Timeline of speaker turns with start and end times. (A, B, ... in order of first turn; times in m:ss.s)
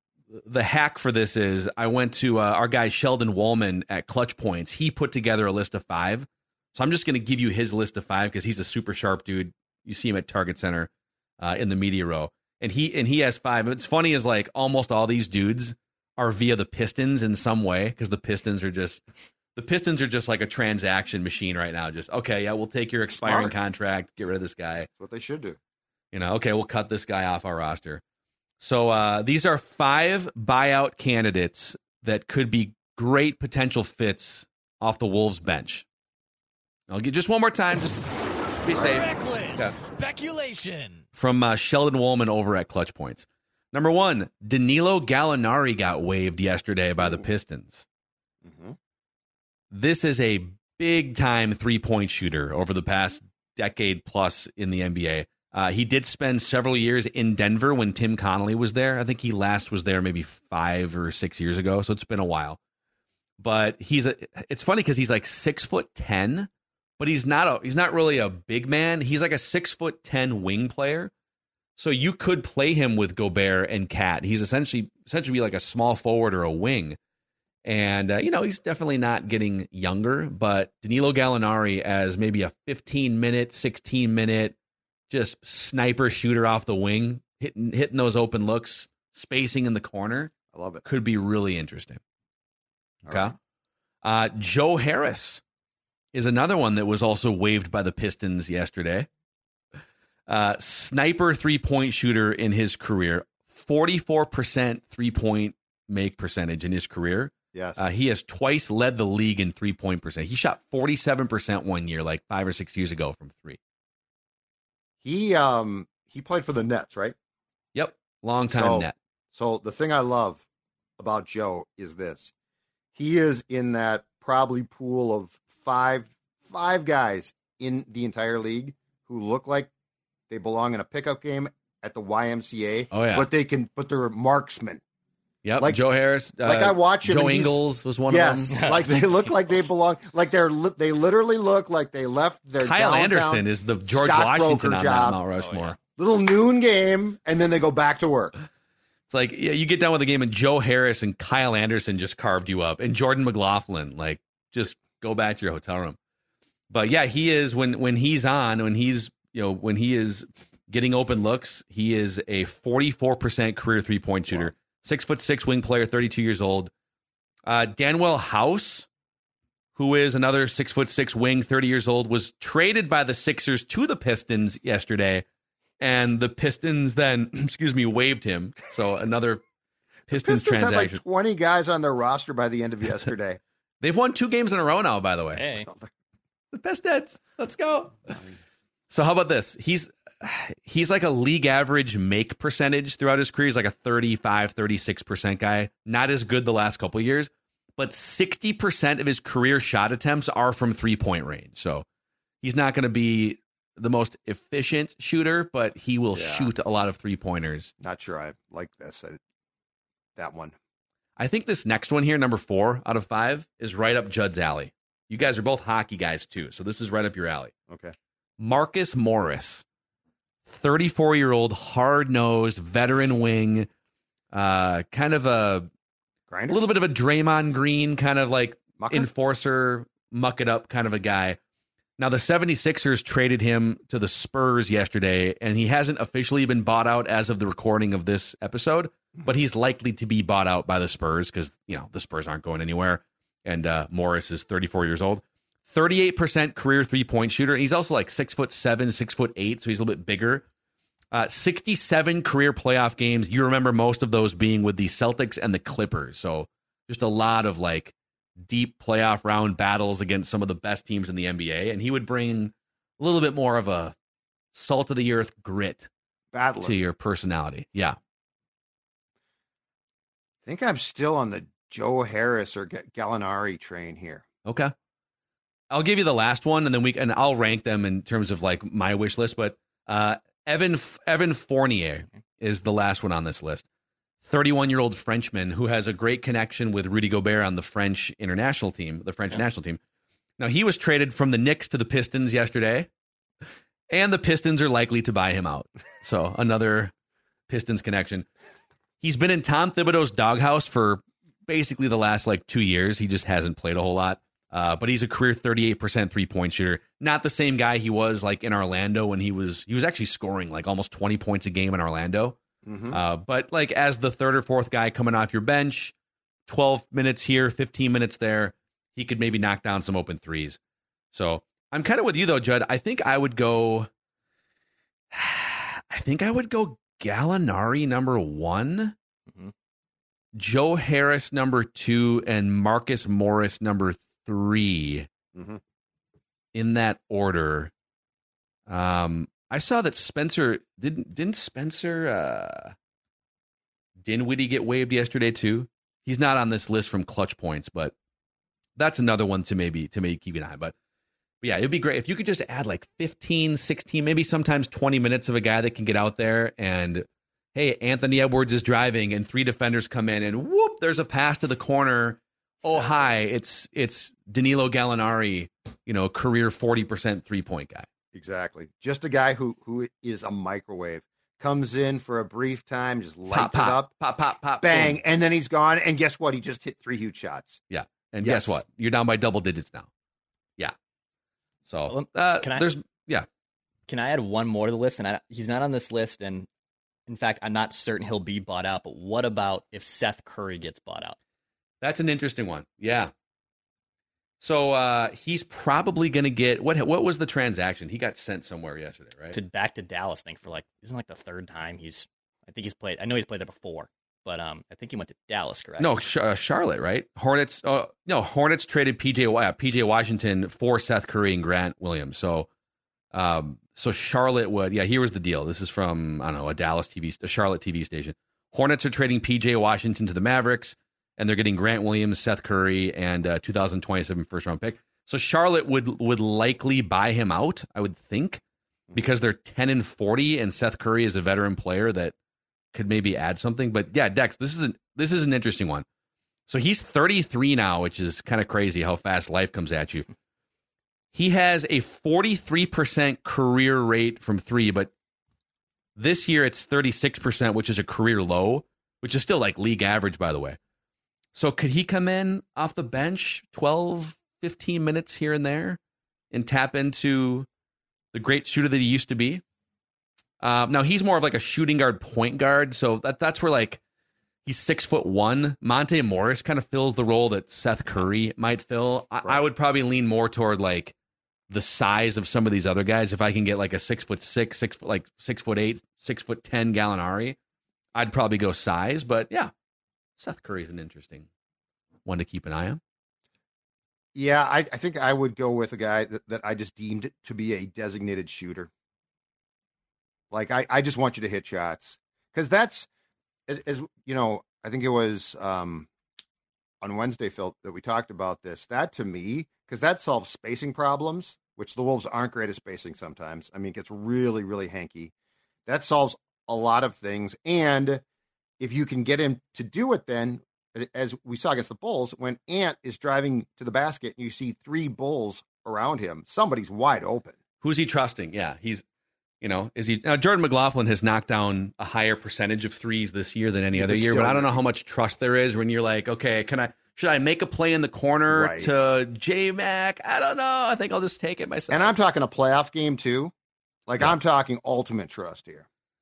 0:00.3-0:19.0 A
0:19.5-0:24.9 A
0:23.2-0:23.5 B
0:24.9-0:25.6 B
0:26.1-0:28.0 A
0:28.6-0:35.8 A
0:36.9-0:39.8 A
0:38.7-0:41.0 C
0:41.1-0:47.8 A
0:48.4-0:48.8 B
0:49.7-1:02.6 A
1:03.4-1:11.1 A
1:11.8-1:17.0 A
1:17.6-1:24.6 A
1:25.1-1:32.0 A
1:30.5-1:30.8 B
1:33.1-1:33.3 B
1:33.1-1:33.3 A
1:34.0-1:35.4 A
1:36.1-1:39.1 A
1:40.3-1:53.6 A
1:47.5-1:47.8 B
1:55.0-1:57.1 B
1:57.7-1:58.9 A
1:58.5-2:00.4 B
2:01.0-2:02.3 B
2:02.9-2:09.7 B
2:10.3-2:14.8 B
2:12.9-2:13.3 A
2:15.4-2:18.7 A
2:16.4-2:25.2 B
2:18.5-2:19.5 D
2:22.6-2:25.8 A
2:25.4-2:25.8 D
2:26.0-2:28.3 B
2:29.1-2:36.0 A
2:36.7-2:46.7 A
2:47.4-2:48.9 A
2:49.8-2:55.2 A
2:55.8-2:59.4 A
3:00.1-3:01.0 A
3:00.1-3:03.4 B
3:03.8-3:05.5 A
3:05.4-3:05.7 D
3:06.5-3:08.2 A
3:08.9-3:21.8 A
3:22.4-3:27.7 A
3:26.1-3:26.5 B
3:27.8-3:29.2 B
3:30.2-3:30.5 B
3:31.2-3:37.5 A
3:37.7-3:37.9 B
3:38.4-3:39.6 A
3:40.4-3:43.7 A
3:44.3-3:45.7 A
3:46.3-3:46.6 B
3:46.5-3:51.4 A
3:48.8-3:49.1 B
3:52.0-4:10.4 A
4:11.1-4:17.9 A
4:18.4-4:23.9 A
4:24.5-4:25.9 A
4:26.3-4:26.8 B
4:26.6-4:28.0 A
4:30.4-4:34.2 B
4:34.4-4:34.7 A
4:35.7-4:43.6 A
4:44.2-4:49.8 A
4:50.4-4:52.9 A
4:53.9-4:56.9 A
4:57.5-4:58.2 A
4:59.0-5:12.4 A
5:12.6-5:13.0 B
5:12.9-5:15.9 A
5:16.5-5:20.6 A
5:21.1-5:23.9 A
5:25.1-5:28.9 A
5:30.3-5:35.1 A
5:35.3-5:35.6 B
5:36.5-5:37.7 A
5:38.7-5:42.7 A
5:44.0-5:47.9 A
5:48.8-5:50.7 A
5:51.4-6:07.9 A
6:08.1-6:13.9 B
6:13.3-6:15.0 A
6:14.6-6:17.6 B
6:17.7-6:19.9 A
6:18.2-6:18.6 B
6:21.7-6:23.2 A
6:21.9-6:22.6 D
6:23.9-6:26.5 D
6:27.1-6:31.2 D
6:31.8-6:33.1 A
6:34.4-6:39.4 A
6:39.3-6:46.0 D
6:45.8-6:52.5 A
6:53.1-7:08.4 A
7:08.9-7:12.1 A
7:12.7-7:15.8 A
7:16.5-7:20.1 A
7:21.1-7:24.9 A
7:26.0-7:30.6 A
7:31.3-7:35.8 A
7:36.3-7:37.5 A
7:38.1-7:39.4 A
7:40.4-7:43.8 A
7:44.4-7:50.9 A
7:51.5-7:57.4 A
7:57.9-7:59.5 A
8:00.2-8:01.3 A
8:02.0-8:02.8 A
8:04.1-8:08.7 B
8:10.3-8:12.9 B
8:13.5-8:15.9 B
8:16.8-8:25.1 B
8:25.6-8:28.0 B
8:28.6-8:37.4 B
8:37.6-8:38.8 A
8:39.4-8:51.9 A
8:43.7-8:44.6 B
8:48.3-8:48.7 B
8:51.7-8:53.3 B
8:53.9-8:55.6 B